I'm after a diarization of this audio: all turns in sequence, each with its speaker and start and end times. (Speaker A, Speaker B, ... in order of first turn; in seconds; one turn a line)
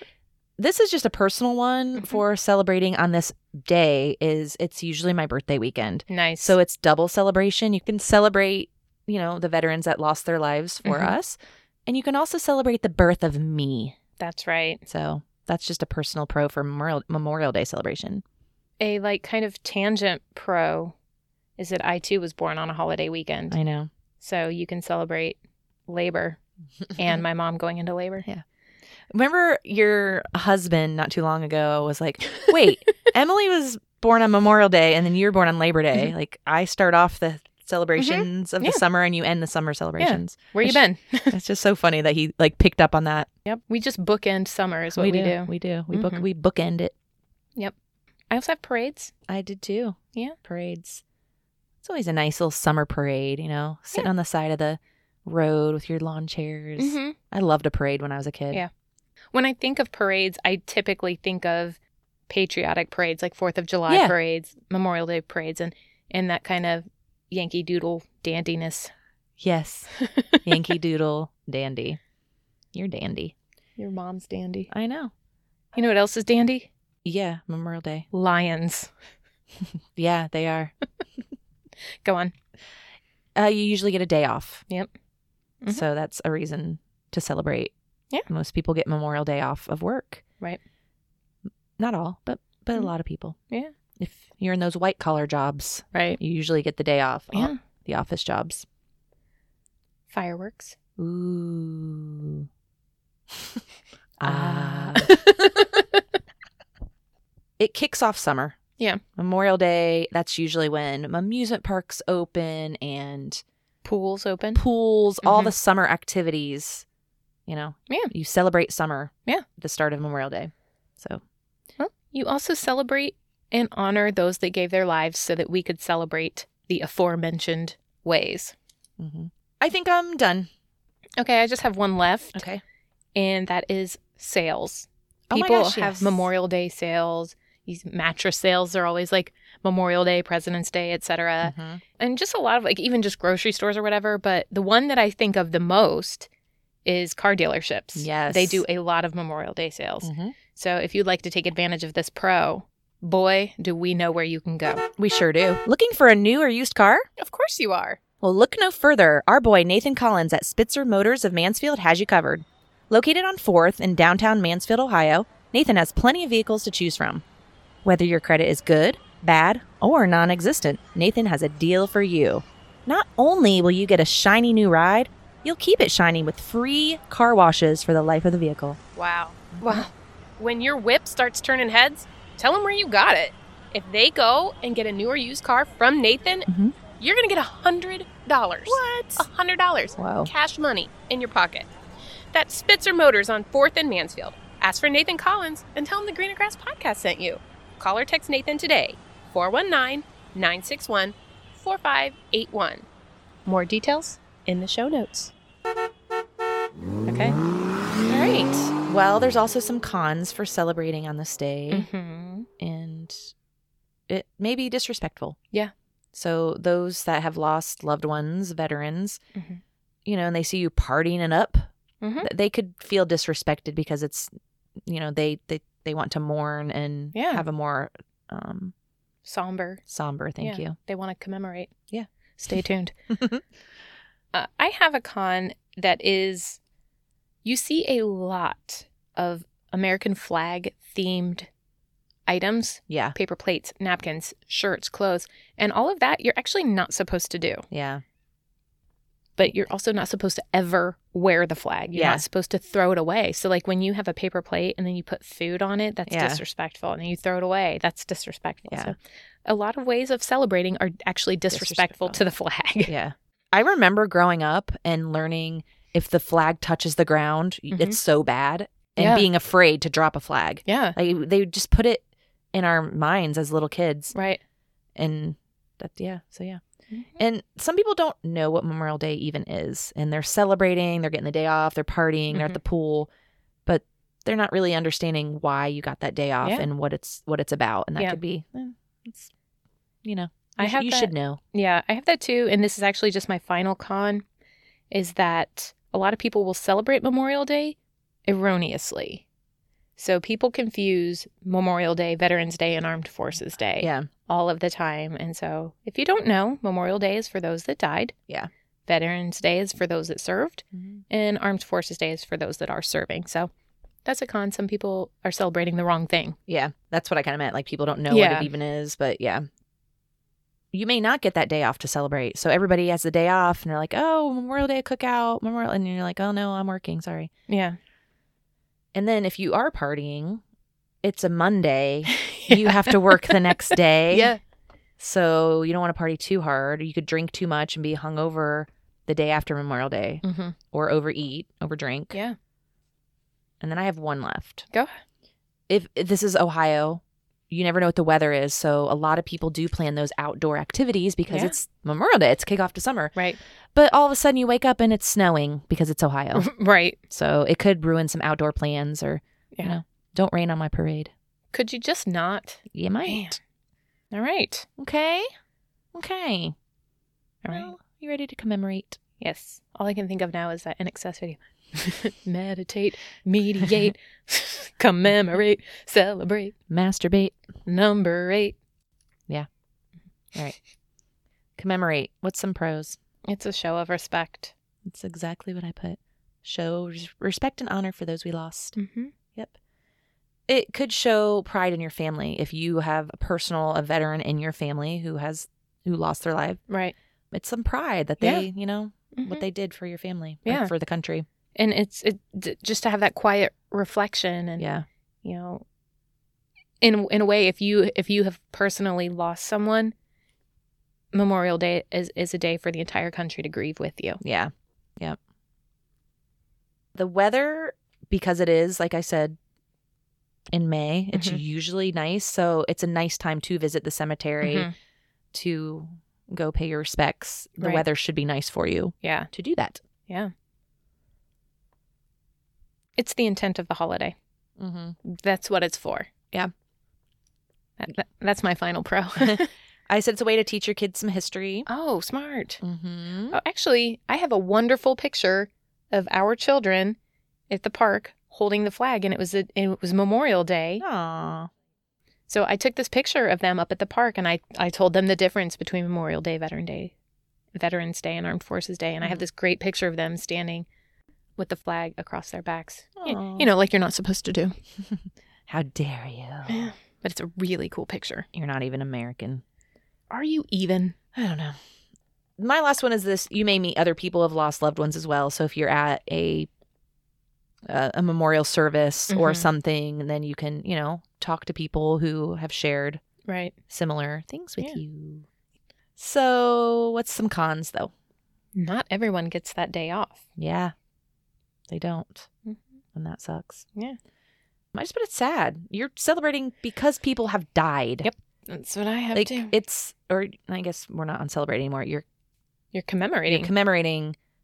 Speaker A: 0.6-14.0
Speaker B: 6.1-6.5
Speaker B: 10.8-11.2
Speaker B: 14.2-14.8
Speaker A: 14.9-18.2
Speaker B: 18.8-20.9
Speaker B: 21.6-23.6
Speaker A: 23.5-23.9
Speaker B: 24.2-26.4
Speaker B: 26.9-28.2
Speaker A: 29.1-43.3
Speaker B: 38.0-38.8
Speaker B: 40.0-41.4
Speaker B: 43.4-46.2
Speaker A: 44.9-46.9
Speaker B: 48.3-49.1
Speaker A: 49.3-51.0
Speaker A: 51.8-58.6
Speaker B: 56.8-57.2
Speaker B: 59.3-61.8
Speaker B: 62.3-68.9
Speaker A: 63.9-64.1
Speaker A: 69.4-69.9
Speaker B: 70.0-70.4
Speaker A: 70.4-72.0
Speaker A: 72.7-73.3
Speaker B: 73.8-74.7
Speaker A: 74.7-75.1
Speaker B: 75.7-76.7
Speaker A: 77.0-78.1
Speaker B: 78.1-78.9
Speaker A: 79.9-80.7
Speaker B: 82.0-82.3
Speaker A: 83.3-84.6
Speaker A: 85.7-87.7
Speaker A: 88.3-90.2
Speaker A: 91.8-93.4
Speaker A: 94.0-98.7
Speaker B: 95.9-96.2
Speaker B: 97.3-97.6
Speaker B: 100.1-100.7
Speaker A: 101.0-102.5
Speaker A: 103.3-103.6
Speaker A: 104.2-105.2
Speaker B: 104.2-106.0
Speaker A: 107.6-108.6
Speaker A: 109.2-113.4
Speaker B: 113.8-114.6
Speaker A: 114.5-116.8
Speaker B: 115.2-115.5
Speaker A: 117.5-121.2
Speaker B: 121.8-128.5
Speaker A: 129.0-130.5
Speaker B: 131.2-132.4
Speaker A: 132.3-132.6
Speaker B: 133.2-146.3
Speaker A: 135.3-136.3
Speaker A: 141.4-141.8
Speaker B: 146.8-154.8
Speaker A: 147.9-148.6
Speaker A: 150.0-150.3
Speaker A: 155.0-157.1
Speaker B: 157.2-158.0
Speaker A: 158.2-167.2
Speaker A: 167.8-178.8
Speaker B: 178.9-191.7
Speaker A: 179.5-179.8
Speaker A: 186.5-186.8
Speaker A: 188.7-189.3
Speaker A: 190.0-190.3
Speaker B: 192.3-202.9
Speaker B: 203.4-205.3
Speaker B: 207.1-207.4
Speaker A: 208.1-211.9
Speaker B: 211.7-212.5
Speaker A: 212.6-213.3
Speaker A: 214.1-215.4
Speaker A: 216.1-219.2
Speaker B: 219.3-219.6
Speaker A: 220.1-221.7
Speaker B: 222.0-222.3
Speaker A: 222.2-224.3
Speaker A: 224.8-228.7
Speaker B: 227.1-227.4
Speaker B: 229.2-229.8
Speaker A: 229.9-230.8
Speaker B: 230.4-231.7
Speaker B: 232.4-232.9
Speaker A: 233.1-233.4
Speaker B: 234.3-236.6
Speaker B: 237.4-241.5
Speaker B: 242.3-247.6
Speaker A: 242.9-243.2
Speaker A: 247.7-248.0
Speaker B: 249.4-262.9
Speaker A: 251.9-252.2
Speaker A: 256.1-256.4
Speaker A: 258.7-258.9
Speaker A: 261.5-262.2
Speaker A: 262.9-274.1
Speaker B: 267.7-268.0
Speaker B: 269.0-269.2
Speaker B: 270.6-270.9
Speaker B: 274.1-274.4
Speaker A: 274.9-276.6
Speaker B: 276.9-277.2
Speaker A: 277.2-283.1
Speaker B: 282.3-282.6
Speaker A: 283.6-289.3
Speaker A: 290.0-291.4
Speaker B: 290.6-294.2
Speaker B: 294.9-299.2
Speaker B: 300.0-308.1
Speaker A: 303.8-304.1
Speaker B: 308.9-313.5
Speaker A: 310.7-311.0
Speaker B: 314.0-316.4
Speaker A: 316.5-319.4
Speaker B: 318.1-318.5
Speaker A: 320.7-327.3
Speaker B: 327.5-327.8
Speaker A: 328.9-330.4
Speaker A: 331.0-334.3
Speaker B: 332.1-334.4
Speaker A: 335.0-342.2
Speaker B: 340.2-340.6
Speaker A: 343.6-344.6
Speaker A: 345.7-353.2
Speaker B: 351.3-351.6
Speaker A: 353.7-356.5
Speaker B: 356.3-357.0
Speaker A: 357.1-361.1
Speaker B: 361.5-363.4
Speaker A: 362.7-363.3
Speaker B: 364.1-364.7
Speaker A: 364.8-365.3
Speaker A: 365.9-366.5
Speaker B: 367.4-367.7
Speaker A: 367.5-369.0
Speaker B: 369.2-376.5
Speaker A: 376.7-377.4
Speaker B: 377.6-378.6
Speaker A: 381.6-383.0
Speaker B: 383.3-384.5
Speaker A: 384.8-388.8
Speaker B: 388.8-389.1
Speaker A: 390.5-396.6
Speaker B: 396.7-396.9
Speaker A: 397.3-401.2
Speaker B: 398.2-398.5
Speaker B: 399.1-399.4
Speaker B: 400.4-400.7
Speaker B: 401.6-404.6
Speaker A: 404.6-404.9
Speaker B: 405.2-405.6
Speaker B: 406.8-409.9
Speaker B: 411.1-414.2
Speaker A: 414.2-415.2
Speaker A: 416.9-419.4
Speaker A: 420.5-424.7
Speaker B: 421.1-421.4
Speaker B: 424.4-424.7
Speaker A: 425.3-429.8
Speaker B: 429.0-429.3
Speaker B: 430.1-430.3
Speaker B: 433.0-434.1
Speaker A: 434.6-434.9
Speaker B: 435.0-436.1
Speaker B: 437.8-439.5
Speaker A: 439.2-441.7
Speaker B: 441.7-442.6
Speaker A: 442.6-443.4
Speaker B: 443.3-447.0
Speaker B: 447.5-450.8
Speaker A: 450.8-451.5
Speaker B: 452.3-456.9
Speaker B: 457.5-460.6
Speaker B: 461.4-464.6
Speaker A: 463.0-463.5
Speaker A: 464.9-466.7
Speaker B: 466.5-468.3
Speaker A: 468.3-469.4
Speaker B: 470.1-470.9
Speaker A: 471.1-471.6
Speaker A: 472.4-476.5
Speaker A: 477.7-483.0
Speaker B: 479.1-479.5
Speaker B: 483.2-483.6
Speaker A: 483.7-485.2
Speaker A: 486.0-487.9
Speaker B: 488.5-490.2
Speaker A: 490.4-490.7
Speaker A: 491.7-492.3
Speaker A: 492.9-493.6
Speaker A: 494.7-498.1
Speaker B: 498.0-499.5
Speaker A: 499.1-502.0
Speaker B: 502.7-503.5
Speaker A: 503.3-504.1